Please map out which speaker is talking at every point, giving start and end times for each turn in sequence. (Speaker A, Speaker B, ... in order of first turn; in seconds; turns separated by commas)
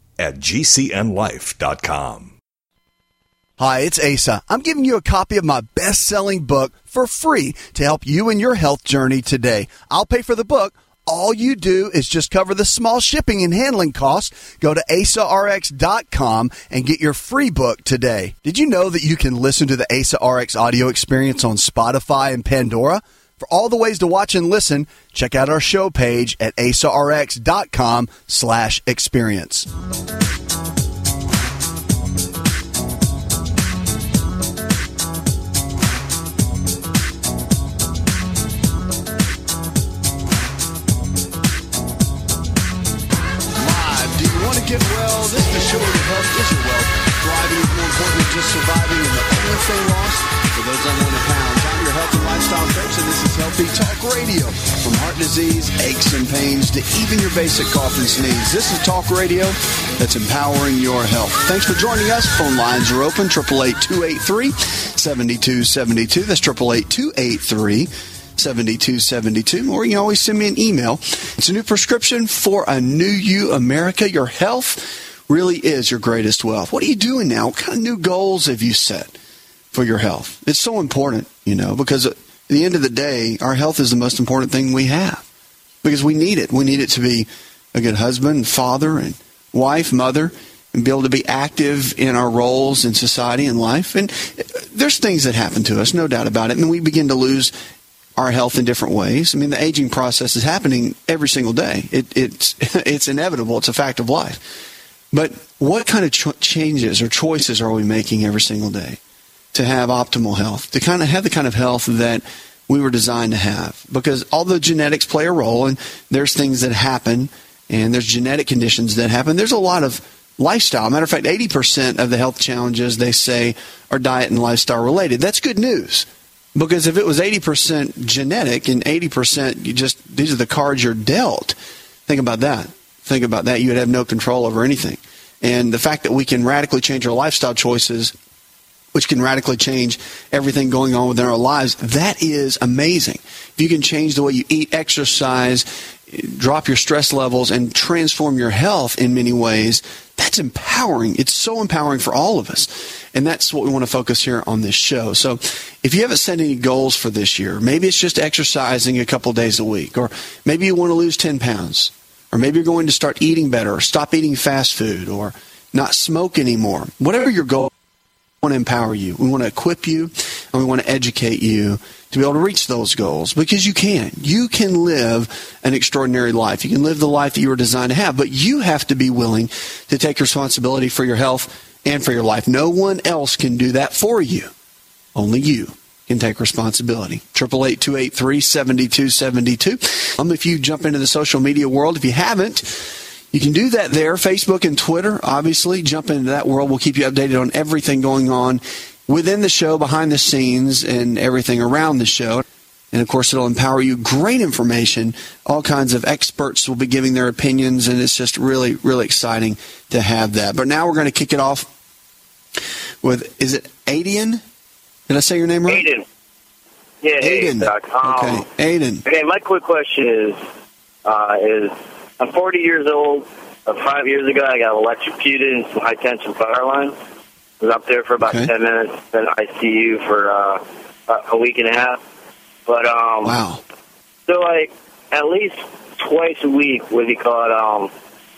Speaker A: 0.2-2.3, Speaker B: 3.6-29.7, Speaker B: 43.6-79.1, Speaker B: 79.7-85.2, Speaker B: 85.8-97.5, Speaker B: 98.2-104.4, Speaker B: 105.1-109.0, Speaker B: 109.5-131.5, Speaker B: 132.1-138.1, Speaker B: 138.9-167.7, Speaker B: 168.4-184.5, Speaker B: 185.1-211.7, Speaker B: 213.0-214.4, Speaker B: 215.1-215.9, Speaker C: 215.7-216.0, Speaker C: 217.0-218.4, Speaker B: 217.2-219.0, Speaker C: 219.0-220.4, Speaker C: 221.0-226.9, Speaker C: 227.6-232.0, Speaker B: 228.2-228.5, Speaker C: 232.7-233.3, Speaker B: 233.2-233.6, Speaker C: 234.3-237.9